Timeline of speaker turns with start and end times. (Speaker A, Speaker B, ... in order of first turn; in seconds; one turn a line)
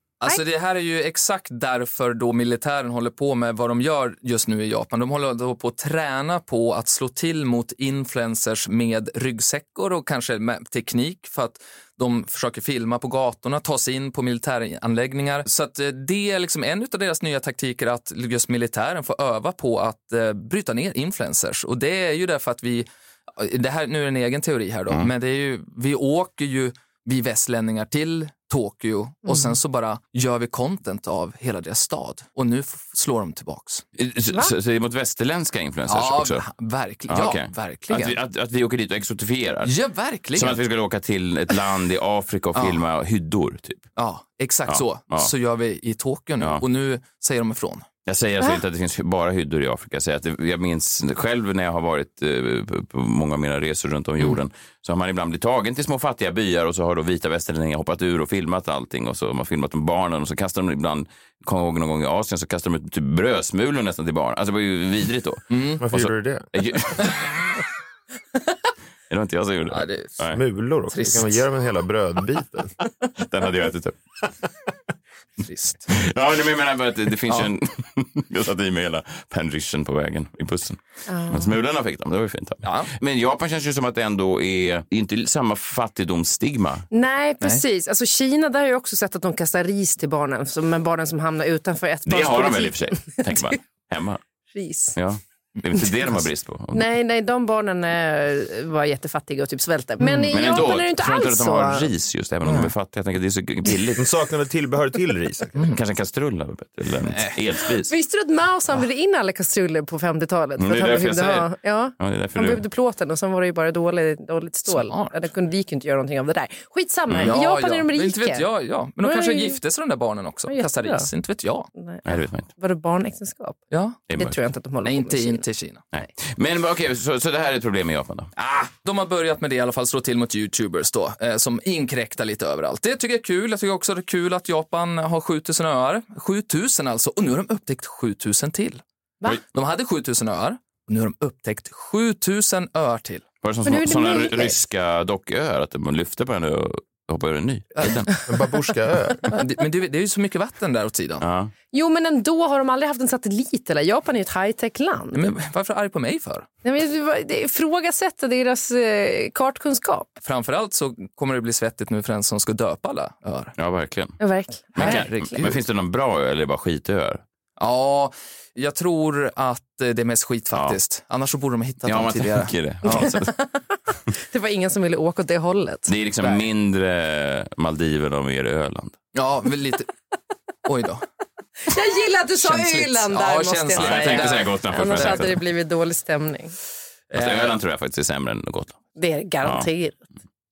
Speaker A: 0.2-33.8
Speaker B: 29.2-29.6
Speaker C: 34.0-36.4
Speaker A: 35.9-38.2
Speaker C: 37.1-39.7
Speaker A: 39.6-40.6
Speaker C: 40.3-43.8
Speaker A: 42.5-42.8
Speaker A: 44.0-47.9
Speaker C: 44.7-45.3
Speaker C: 48.0-67.2
Speaker A: 65.5-65.8
Speaker D: 65.8-66.5
Speaker C: 69.1-70.4
Speaker A: 69.7-70.2
Speaker D: 70.3-72.7
Speaker A: 70.9-71.4
Speaker C: 73.2-74.0
Speaker A: 75.4-75.9
Speaker C: 75.9-86.8
Speaker B: 81.1-81.5
Speaker A: 82.6-82.9
Speaker B: 86.9-93.5
Speaker C: 92.0-94.2
Speaker B: 94.5-94.9
Speaker C: 94.9-96.9
Speaker B: 96.7-101.9
Speaker A: 100.0-100.3
Speaker C: 100.3-104.1
Speaker D: 104.0-105.6
Speaker C: 105.7-107.9
Speaker A: 107.0-107.4
Speaker B: 107.9-118.5
Speaker C: 110.6-112.6
Speaker A: 114.7-115.2
Speaker C: 117.1-117.3
Speaker A: 117.2-121.7
Speaker B: 119.0-119.6
Speaker B: 120.5-121.1
Speaker B: 121.7-125.4
Speaker C: 122.0-122.5
Speaker A: 123.7-124.1
Speaker C: 124.1-124.4
Speaker A: 124.8-125.8
Speaker C: 125.9-128.3
Speaker A: 128.3-138.8
Speaker A: 139.4-143.3
Speaker C: 143.4-148.1
Speaker B: 143.6-144.6
Speaker D: 148.3-149.3
Speaker A: 149.3-151.2
Speaker C: 151.2-151.5
Speaker B: 151.7-155.2
Speaker A: 155.1-156.5
Speaker B: 156.6-160.1
Speaker A: 160.2-163.5
Speaker C: 163.6-164.2
Speaker B: 164.2-165.4
Speaker A: 164.8-165.6
Speaker C: 164.8-167.2
Speaker A: 167.6-173.1
Speaker C: 171.8-173.3
Speaker B: 172.8-173.6
Speaker B: 174.1-175.9
Speaker C: 175.9-179.0
Speaker A: 179.1-179.9
Speaker A: 180.7-181.0
Speaker B: 181.7-186.5
Speaker A: 182.3-185.3
Speaker C: 183.7-185.4
Speaker A: 187.1-187.6
Speaker C: 187.1-188.8
Speaker B: 188.9-190.0
Speaker C: 189.4-189.7